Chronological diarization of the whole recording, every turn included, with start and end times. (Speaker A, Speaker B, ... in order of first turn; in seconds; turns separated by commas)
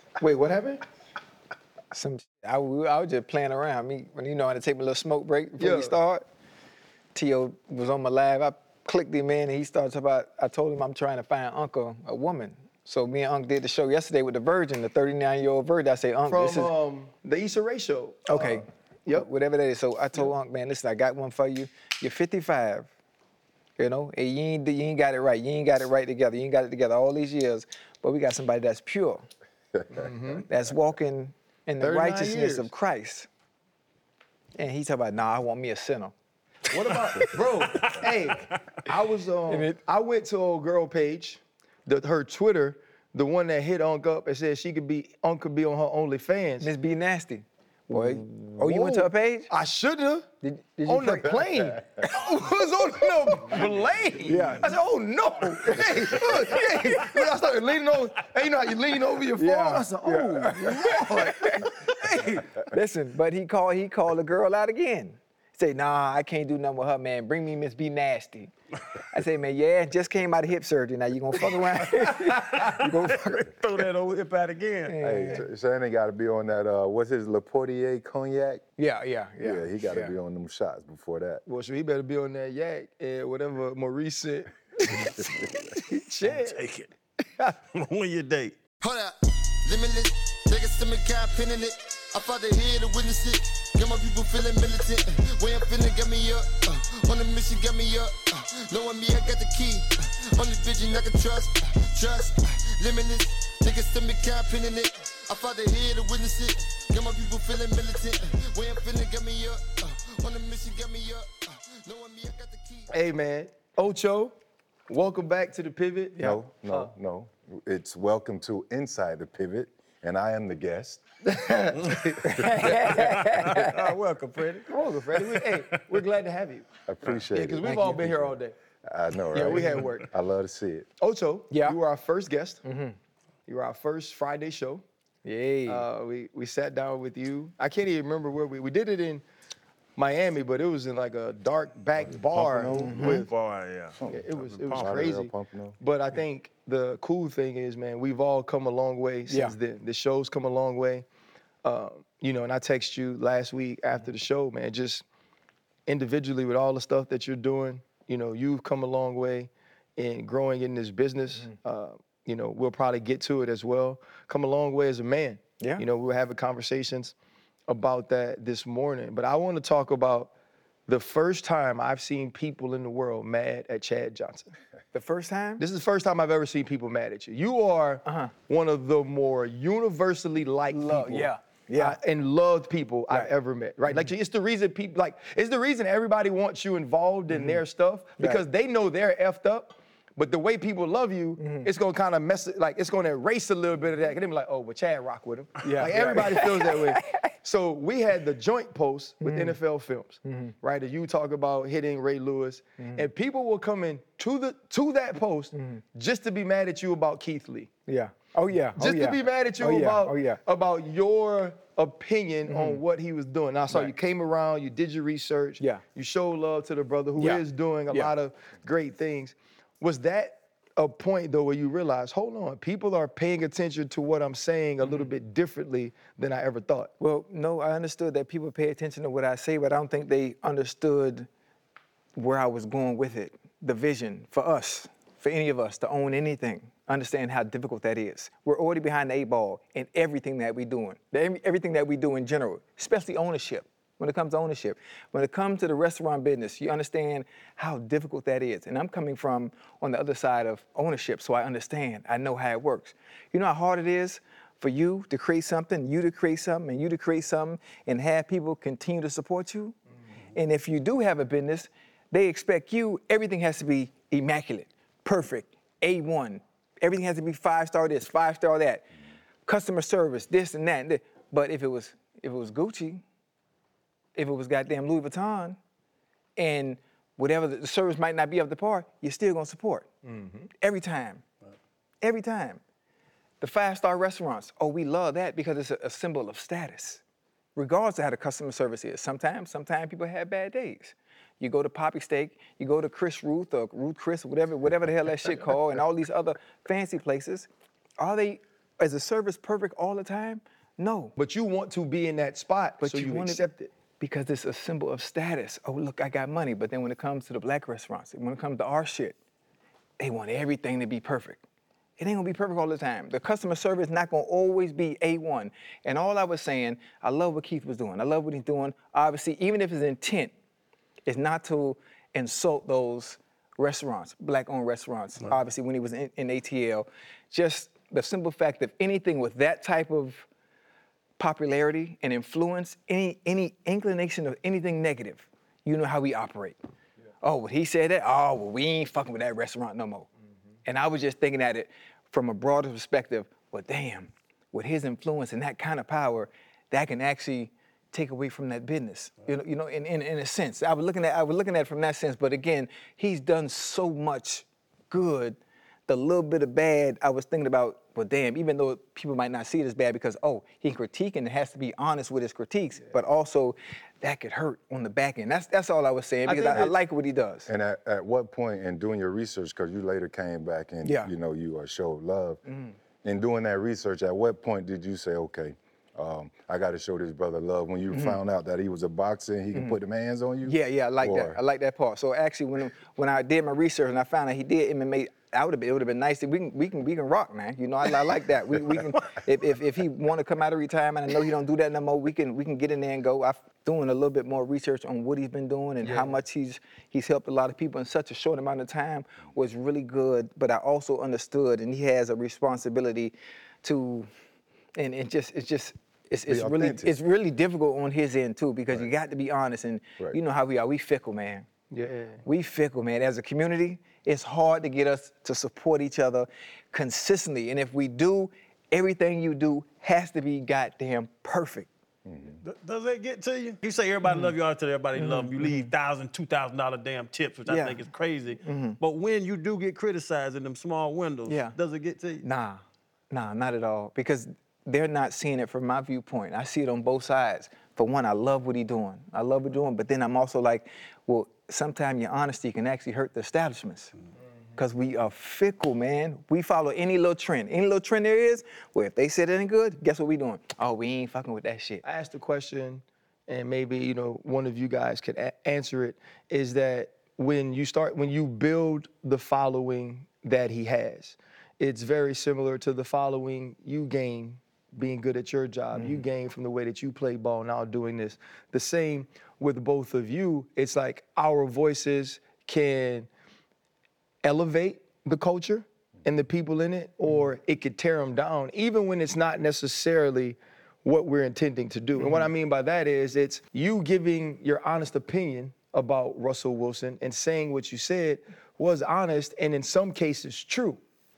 Speaker A: 0.2-0.8, Speaker B: 1.9-6.2, Speaker A: 5.6-6.0, Speaker B: 7.1-16.7, Speaker A: 16.3-19.3, Speaker B: 18.3-22.9, Speaker B: 23.8-29.3, Speaker A: 29.9-30.4, Speaker B: 30.4-33.3, Speaker A: 31.8-32.7, Speaker B: 34.6-36.1, Speaker A: 36.7-46.7, Speaker B: 37.0-37.9, Speaker B: 39.5-39.8, Speaker B: 46.6-49.5, Speaker A: 48.0-50.3, Speaker B: 50.4-51.8, Speaker A: 50.9-62.4, Speaker B: 54.2-54.8, Speaker B: 55.7-57.1, Speaker B: 59.3-68.5, Speaker B: 69.1-73.5, Speaker C: 71.8-75.0, Speaker B: 74.9-75.4, Speaker D: 75.0-78.6, Speaker B: 78.8-80.1, Speaker D: 79.4-81.4, Speaker A: 81.5-85.2, Speaker A: 85.8-86.6, Speaker C: 86.2-86.9, Speaker C: 87.7-88.6, Speaker E: 88.8-112.9, Speaker A: 112.9-114.3, Speaker A: 114.9-116.9, Speaker D: 116.2-121.0, Speaker A: 121.2-122.8, Speaker B: 122.2-123.9, Speaker C: 122.7-124.7, Speaker A: 124.6-126.7, Speaker D: 126.8-130.9, Speaker A: 127.3-128.6, Speaker B: 127.6-128.0, Speaker A: 129.3-130.1, Speaker A: 131.0-132.6, Speaker B: 131.5-131.8, Speaker B: 132.6-132.9, Speaker A: 133.5-134.8, Speaker B: 135.2-135.8, Speaker A: 135.7-139.2, Speaker A: 140.0-143.3, Speaker D: 142.3-143.1, Speaker C: 142.4-145.1, Speaker B: 142.7-143.2, Speaker D: 144.0-145.8, Speaker A: 144.1-151.1, Speaker B: 149.3-149.5, Speaker A: 151.6-155.0, Speaker A: 155.9-167.1, Speaker A: 167.7-170.3, Speaker A: 170.9-174.5, Speaker B: 174.9-175.6, Speaker A: 175.6-207.7, Speaker B: 178.1-178.3, Speaker B: 180.7-182.0, Speaker B: 187.3-187.6, Speaker B: 191.4-191.7, Speaker B: 195.6-197.2, Speaker B: 199.2-199.6, Speaker B: 200.2-200.5, Speaker B: 202.8-203.0, Speaker B: 207.9-210.4, Speaker A: 208.8-226.9, Speaker B: 212.5-212.8, Speaker B: 217.2-218.1, Speaker B: 227.0-231.3, Speaker B: 232.2-259.8, Speaker B: 260.3-268.8, Speaker B: 269.4-273.0, Speaker B: 274.1-275.6, Speaker B: 276.4-279.9, Speaker A: 280.0-280.5, Speaker B: 280.6-281.2, Speaker B: 282.0-282.6, Speaker B: 283.4-287.0, Speaker B: 287.6-297.5, Speaker B: 298.0-301.1, Speaker A: 301.1-303.7, Speaker B: 302.8-303.4, Speaker B: 304.0-309.1, Speaker B: 310.0-311.4, Speaker B: 312.0-320.3, Speaker B: 321.1-330.2, Speaker B: 331.2-336.6, Speaker B: 337.2-340.1, Speaker B: 340.6-367.5, Speaker A: 366.2-366.8, Speaker D: 367.5-372.4, Speaker B: 370.8-371.1, Speaker D: 373.0-381.4, Speaker B: 380.4-404.1, Speaker A: 395.8-396.2, Speaker B: 404.8-411.5, Speaker D: 406.3-406.9, Speaker A: 411.7-412.2, Speaker B: 412.2-421.7, Speaker D: 422.1-422.4, Speaker C: 422.4-432.2, Speaker B: 424.1-424.3, Speaker B: 425.0-425.7, Speaker B: 427.5-427.8, Speaker B: 428.4-428.8, Speaker B: 431.3-431.6, Speaker B: 432.2-443.9, Speaker B: 444.6-451.8, Speaker A: 451.8-473.1, Speaker A: 474.2-490.8